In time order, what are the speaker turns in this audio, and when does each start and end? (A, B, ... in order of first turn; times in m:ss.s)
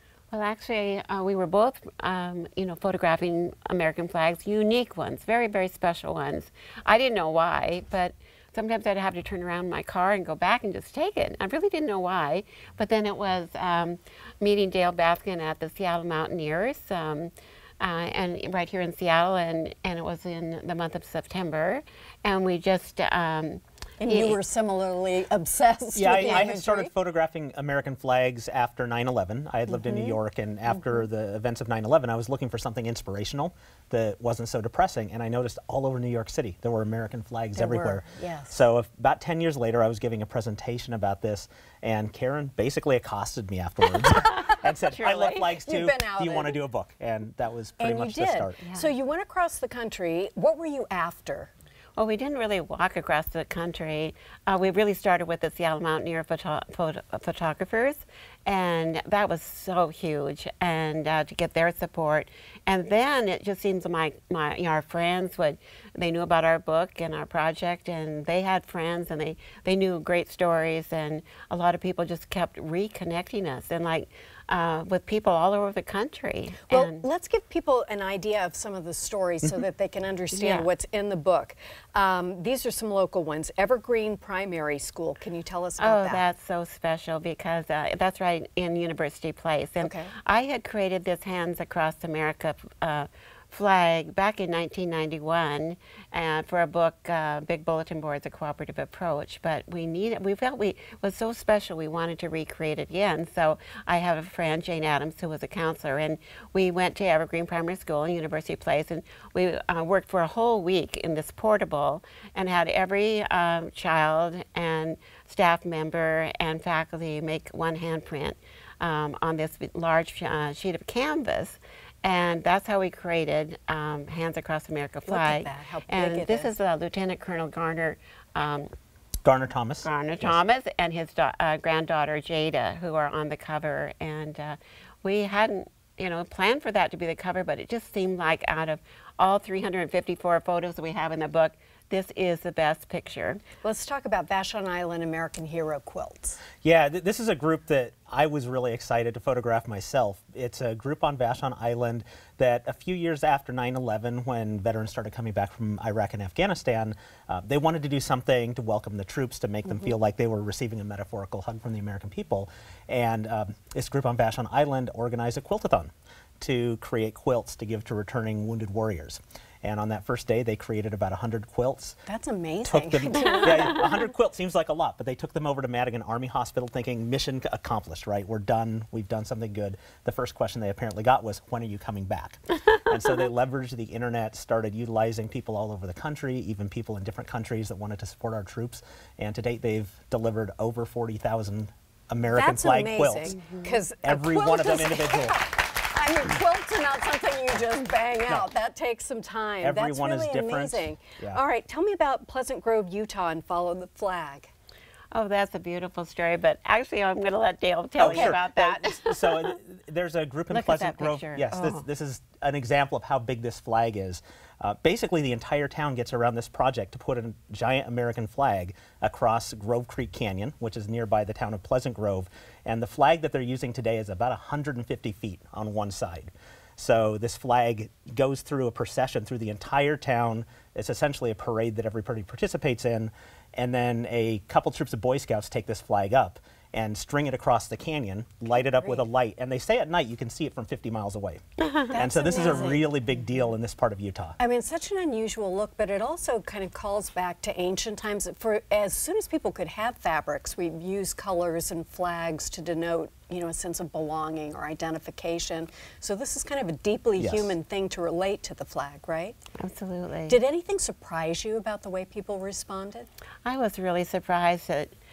0:00.3-0:24.4 A
0:24.0-0:26.9 B
0:26.0-0:48.7 C
0:29.7-0:30.2 B
0:37.6-0:38.6 B
0:44.5-0:45.5 A
0:45.0-0:46.6 B
0:47.8-0:51.5 B
0:52.0-1:17.0 A
1:16.7-1:26.2 B
1:20.3-1:20.7 A
1:25.8-2:08.7 A
1:29.8-1:30.1 B
2:05.1-2:06.5 B
2:09.2-2:10.4 C
2:09.8-2:23.4 A
2:23.6-2:26.4 B
2:26.6-2:52.0 C
2:52.1-2:53.9 B
2:52.6-3:13.4 C
3:12.3-3:24.5 B
3:14.0-3:15.4 C
3:19.6-3:21.4 C
3:25.1-3:29.5 A
3:28.0-3:28.8 B
3:28.0-4:01.4 C
3:30.5-3:31.8 A
3:58.8-3:59.0 B
4:01.6-4:01.9 A
4:01.9-4:02.9 B
4:01.9-4:04.4 C
4:04.4-4:19.4 B
4:17.2-4:17.5 C
4:19.6-4:20.4 A
4:20.3-4:23.1 B
4:23.4-4:24.9 A